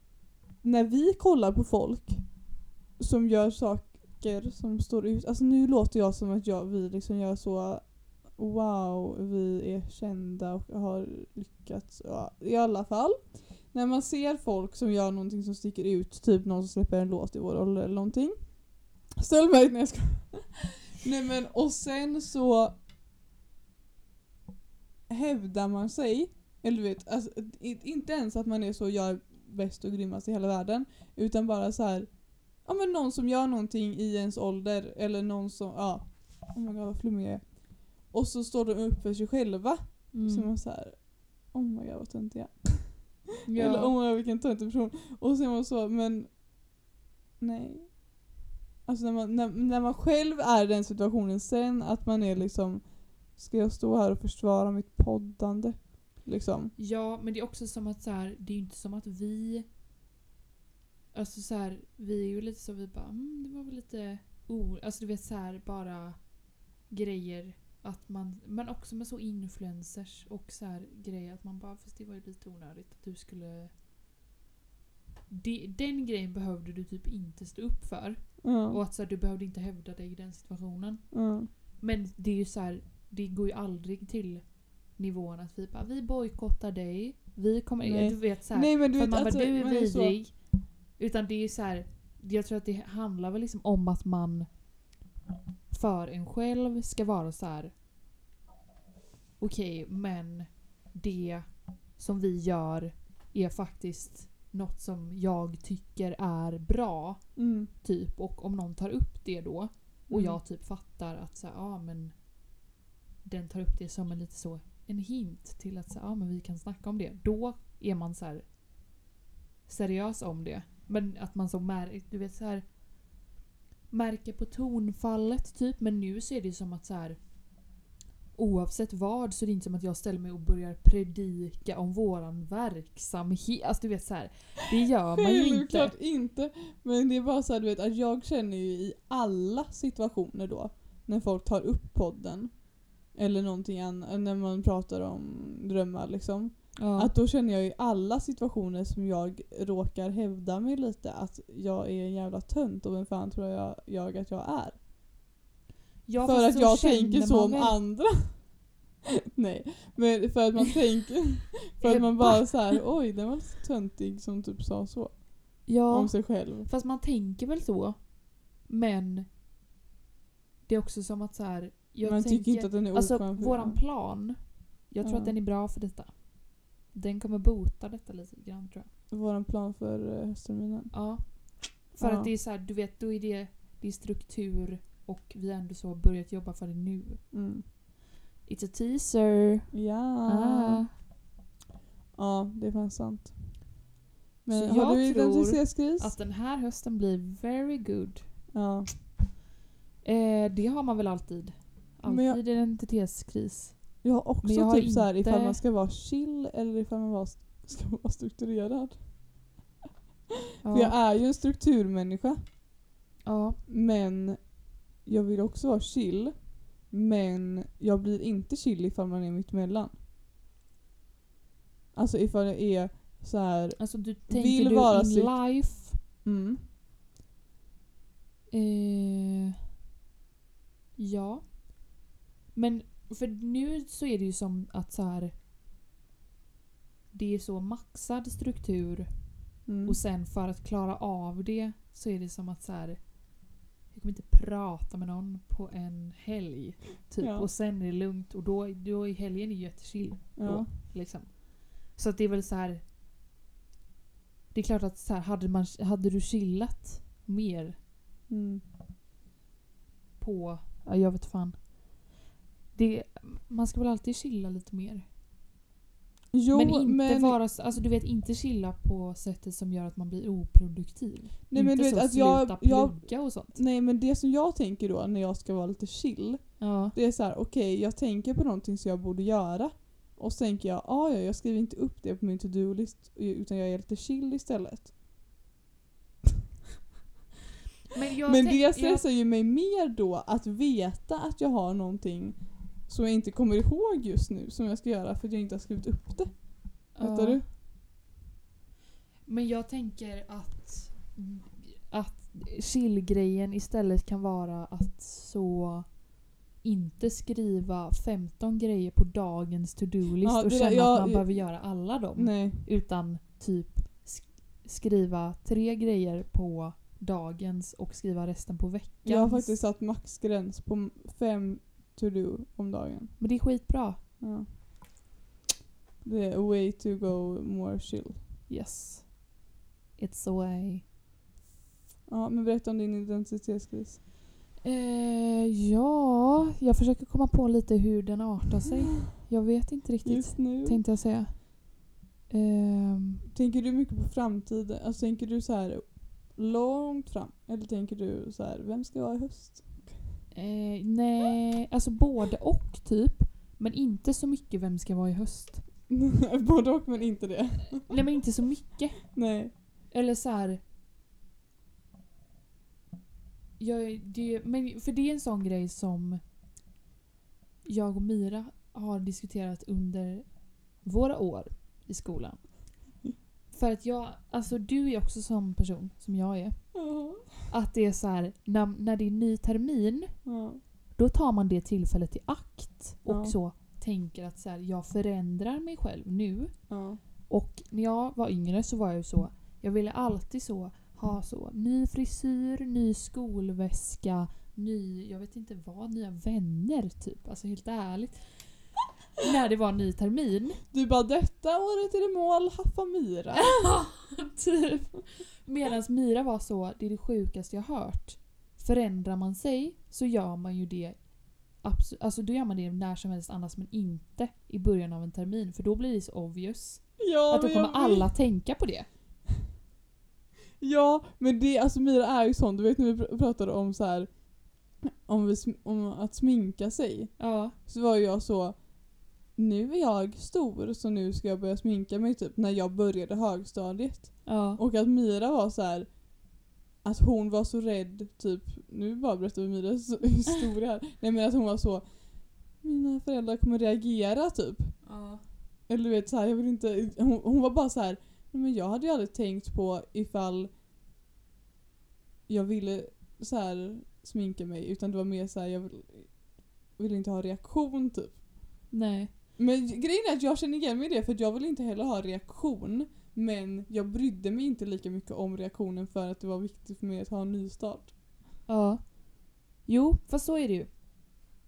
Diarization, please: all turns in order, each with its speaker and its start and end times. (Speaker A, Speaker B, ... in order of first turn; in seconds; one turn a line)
Speaker A: 0.6-22.8
Speaker A: 25.1-46.5
Speaker B: 40.1-40.5
Speaker B: 43.5-43.9
Speaker A: 47.4-48.3
Speaker A: 48.9-56.8
Speaker B: 56.8-59.7
Speaker B: 61.1-73.7
Speaker B: 75.3-94.6
Speaker A: 78.4-78.8
Speaker A: 81.1-81.5
Speaker A: 87.8-90.2
Speaker B: 95.7-97.7
Speaker B: 99.4-112.3
Speaker A: 107.4-107.7
Speaker A: 110.1-110.4
Speaker B: 113.2-118.5
Speaker B: 119.7-122.8
Speaker B: 123.9-127.4
Speaker B: 128.3-135.9
Speaker A: 135.2-154.8
Speaker B: 146.8-147.2
Speaker B: 156.1-157.8
Speaker A: 156.2-158.6
Speaker A: 159.3-166.7
Speaker B: 161.8-162.8
Speaker B: 165.7-169.3
Speaker B: 170.7-178.9
Speaker A: 172.0-173.9
Speaker A: 175.0-175.3
Speaker A: 179.1-181.4
Speaker B: 180.9-187.3
Speaker A: 182.0-182.3
Speaker A: 187.3-187.6
Speaker B: 188.4-190.9
Speaker A: 189.7-190.9
Speaker A: 192.2-193.7
Speaker A: 194.4-196.1
Speaker B: 194.5-198.4
Speaker A: 198.5-198.9
Speaker B: 200.0-205.6
Speaker A: 202.1-202.4
Speaker A: 204.0-209.4
Speaker B: 210.6-211.0
Speaker A: 210.7-212.4
Speaker B: 213.2-213.6
Speaker A: 213.7-220.0
Speaker A: 221.9-226.6
Speaker B: 223.8-226.0
Speaker B: 228.5-229.6
Speaker B: 231.0-232.0
Speaker B: 232.5-235.3
Speaker B: 237.1-243.3
Speaker A: 239.7-240.0
Speaker B: 243.9-252.8
Speaker A: 247.2-247.5
Speaker A: 250.4-250.7
Speaker B: 254.5-257.8
Speaker A: 258.3-258.6
Speaker B: 260.2-262.1
Speaker B: 262.7-265.1
Speaker A: 266.3-267.6
Speaker B: 266.5-273.6
Speaker A: 271.5-284.9
Speaker B: 276.6-277.0
Speaker B: 287.9-289.1
Speaker A: 288.3-297.5
Speaker B: 296.9-297.4
Speaker B: 299.3-306.1
Speaker B: 306.6-319.6
Speaker A: 310.2-312.7
Speaker A: 319.0-323.3
Speaker B: 323.2-324.0
Speaker A: 324.2-324.5
Speaker A: 326.0-328.2
Speaker B: 328.5-329.3
Speaker B: 330.0-330.9
Speaker A: 332.1-334.0
Speaker B: 334.6-343.2
Speaker A: 340.0-340.9
Speaker A: 343.3-350.1
Speaker B: 350.3-355.6
Speaker A: 355.9-358.0
Speaker B: 357.9-360.6
Speaker A: 359.1-359.5
Speaker B: 363.6-366.2
Speaker B: 367.6-372.8
Speaker B: 373.5-380.3
Speaker A: 376.8-377.3
Speaker A: 380.2-380.6
Speaker B: 380.9-386.8
Speaker A: 383.1-383.4
Speaker A: 386.7-387.0
Speaker B: 387.3-400.6
Speaker A: 400.7-403.8
Speaker B: 403.4-418.9
Speaker A: 417.0-418.1
Speaker A: 420.6-444.9
Speaker B: 427.2-427.6
Speaker B: 434.2-434.6
Speaker B: 444.8-445.2
Speaker A: 445.7-450.5
Speaker A: 452.3-458.2
Speaker B: 458.7-459.1
Speaker A: 459.4-468.0
Speaker B: 468.5-470.9